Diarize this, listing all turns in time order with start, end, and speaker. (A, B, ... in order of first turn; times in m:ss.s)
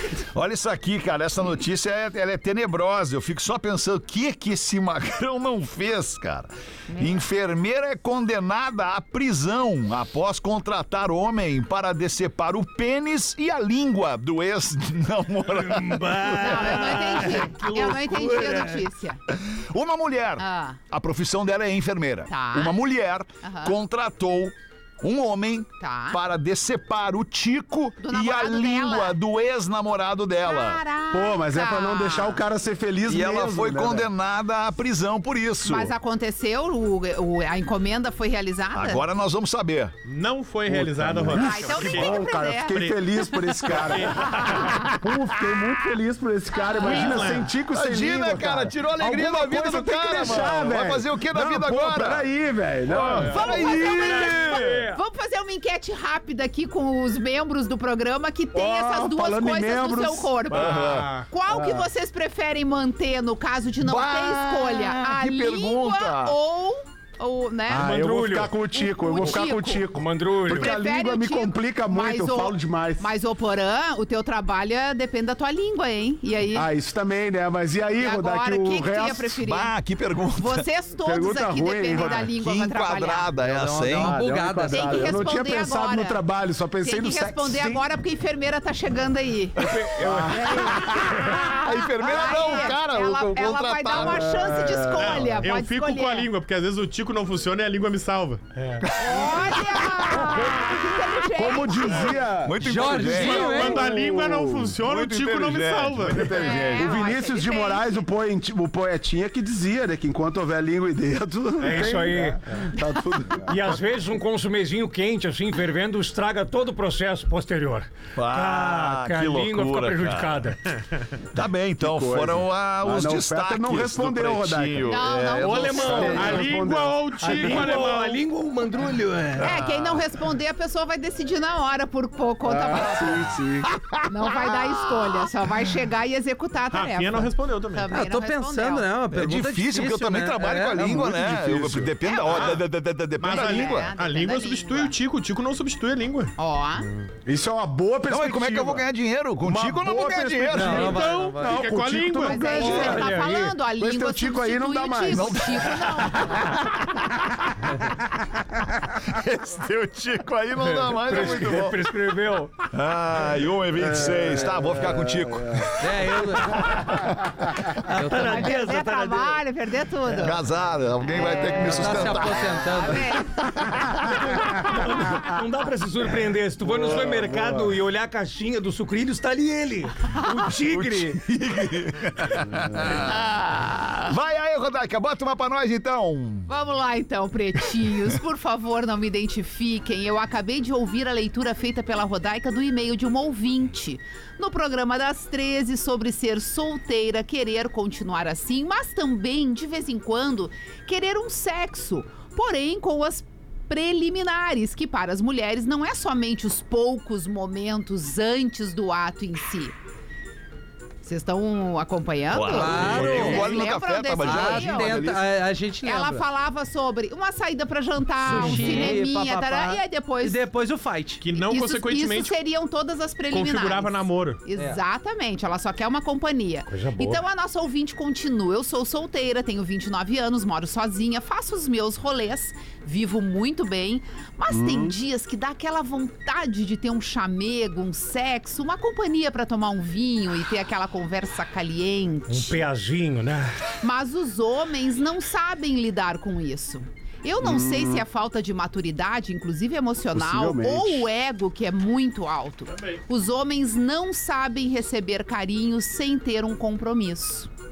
0:00.3-0:16.8 A
0:06.9-0:07.2 B
0:15.5-0:18.8 C
0:16.4-0:19.2 B
0:19.3-0:30.8 A
0:20.4-0:20.8 B
0:22.3-0:22.8 B
0:23.4-0:23.8 B
0:25.8-0:26.2 B
0:28.0-0:29.2 B
0:30.4-0:32.4 B
0:31.1-0:34.1 D
0:33.1-0:35.9 A
0:35.6-0:39.0 B
0:38.7-0:39.9 A
0:40.0-0:44.5 E
0:40.7-0:53.4 D
0:41.3-0:43.7 B
0:44.3-0:44.9 B
0:44.7-0:45.0 A
0:46.6-0:47.1 B
0:46.8-0:47.6 E
0:47.2-0:52.3 A
0:52.9-0:54.8 A
0:53.1-0:55.0 C
0:53.3-1:08.0 B
0:58.5-1:00.4 D
1:00.5-1:01.3 E
1:00.5-1:01.1 A
1:01.5-1:01.9 D
1:03.8-1:06.4 A
1:07.7-1:13.1 D
1:07.8-1:08.6 C
1:08.7-1:09.9 B
1:09.9-1:10.7 C
1:10.4-1:16.7 B
1:16.5-1:19.4 D
1:18.0-1:19.7 B
1:19.4-1:20.6 A
1:20.4-1:23.3 B
1:21.0-1:22.3 D
1:22.0-1:24.2 A
1:23.4-1:25.2 F
1:23.9-1:27.8 D
1:24.7-1:26.2 B
1:26.8-1:29.6 B
1:29.6-1:34.8 A
1:29.7-1:31.5 C
1:30.0-1:31.2 D
1:31.4-1:36.3 B
1:33.9-1:35.4 D
1:35.0-1:38.4 E
1:38.6-1:38.9 C
1:38.9-1:40.4 A
1:39.0-1:42.2 B
1:40.1-1:42.6 D
1:42.4-1:43.6 A
1:42.6-1:43.9 F
1:43.1-1:46.4 E
1:43.2-1:44.8 D
1:44.8-1:47.0 A
1:46.1-1:53.8 D
1:46.3-1:48.0 B
1:51.6-1:52.4 C
1:53.5-2:00.6 C
1:58.2-2:00.5 A
2:01.3-2:06.0 A
2:01.8-2:05.1 D
2:04.8-2:06.2 B
2:05.4-2:06.6 C
2:05.6-2:07.7 D
2:06.0-2:08.2 E
2:07.2-2:10.0 C
2:09.4-2:13.2 B
2:12.4-2:13.7 D
2:12.8-2:13.1 A
2:13.7-2:15.3 A
2:14.0-2:18.9 B
2:16.7-2:17.9 E
2:17.9-2:21.0 F
2:19.1-2:24.0 A
2:20.8-2:22.0 D
2:22.0-2:22.6 B
2:22.3-2:22.6 E
2:23.2-2:26.3 E
2:23.2-2:24.9 B
2:26.4-2:26.9 B
2:27.2-2:28.9 D
2:28.1-2:31.0 A
2:29.4-2:33.0 D
2:30.5-2:31.6 F
2:30.6-2:33.0 E
2:32.2-2:36.4 B
2:32.5-2:33.6 C
2:33.8-2:35.5 D
2:35.1-2:37.7 A
2:38.8-2:41.8 A
2:40.7-2:42.5 C
2:42.7-2:47.7 A
2:43.8-2:45.7 D
2:45.8-2:46.7 F
2:47.9-2:49.4 C
2:47.9-2:48.5 F
2:48.1-2:50.4 B
2:50.1-2:54.8 A
2:51.1-2:52.2 B
2:51.6-2:53.0 F
2:52.8-2:53.5 B
2:54.3-3:01.2 C
2:56.7-2:57.5 D
3:00.6-3:06.5 A
3:06.5-3:29.8 B
3:31.0-3:35.1 B
3:32.3-3:35.2 A
3:32.5-3:33.7 F
3:34.2-3:36.2 F
3:35.8-3:40.4 B
3:38.2-3:41.2 F
3:38.2-3:39.0 C
3:41.2-3:42.4 E
3:41.4-4:02.6 B
3:43.3-3:44.4 E
3:46.7-3:47.2 C
3:54.5-3:54.9 D
4:02.3-4:03.5 C
4:03.8-4:17.5 B
4:07.4-4:08.0 D
4:10.1-4:11.1 D